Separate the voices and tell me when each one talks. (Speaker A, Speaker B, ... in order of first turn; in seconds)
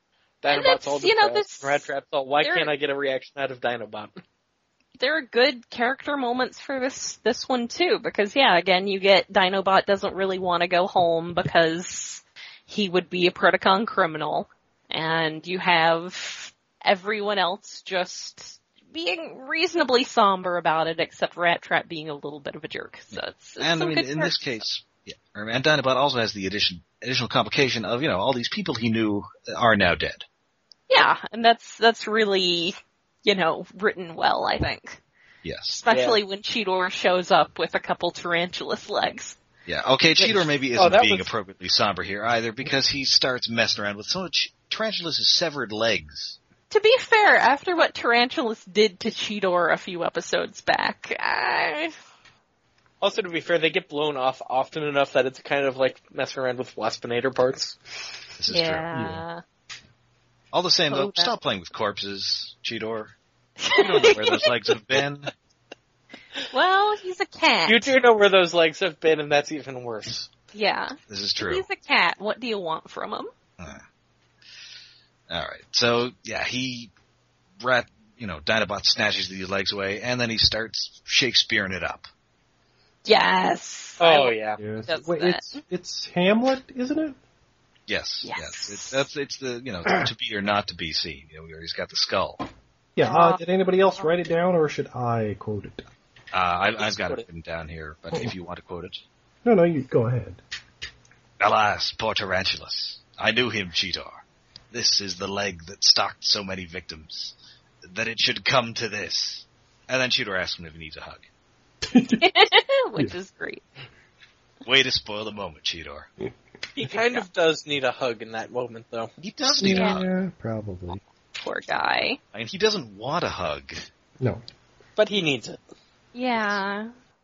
Speaker A: 0.4-4.2, 35.9-36.2, 40.8-41.3, 53.0-57.8, 63.8-64.4, 67.7-70.3, 84.0-84.6, 96.8-97.2, 116.7-119.1, 125.0-125.6
Speaker B: 0.5-2.7, 5.0-24.6, 30.9-35.0, 35.7-39.4, 46.7-51.9, 58.5-59.4, 60.9-61.3, 63.6-64.4, 66.5-67.9, 70.5-73.3, 83.0-85.6, 88.2-89.0, 93.0-93.4, 112.2-113.6, 119.6-120.0, 121.3-122.2, 126.1-126.9
Speaker C: 23.1-30.3, 35.4-35.8, 39.7-46.4, 58.4-58.9, 60.5-63.1, 64.0-65.3, 71.1-71.6, 75.3-76.9, 77.6-82.1, 87.9-92.4, 96.3-99.0, 101.4-111.2, 114.6-116.1, 119.2-120.1, 122.3-123.8
Speaker D: 58.9-59.2, 84.6-87.2, 93.0-95.9, 99.4-100.4, 111.8-112.3, 119.6-121.0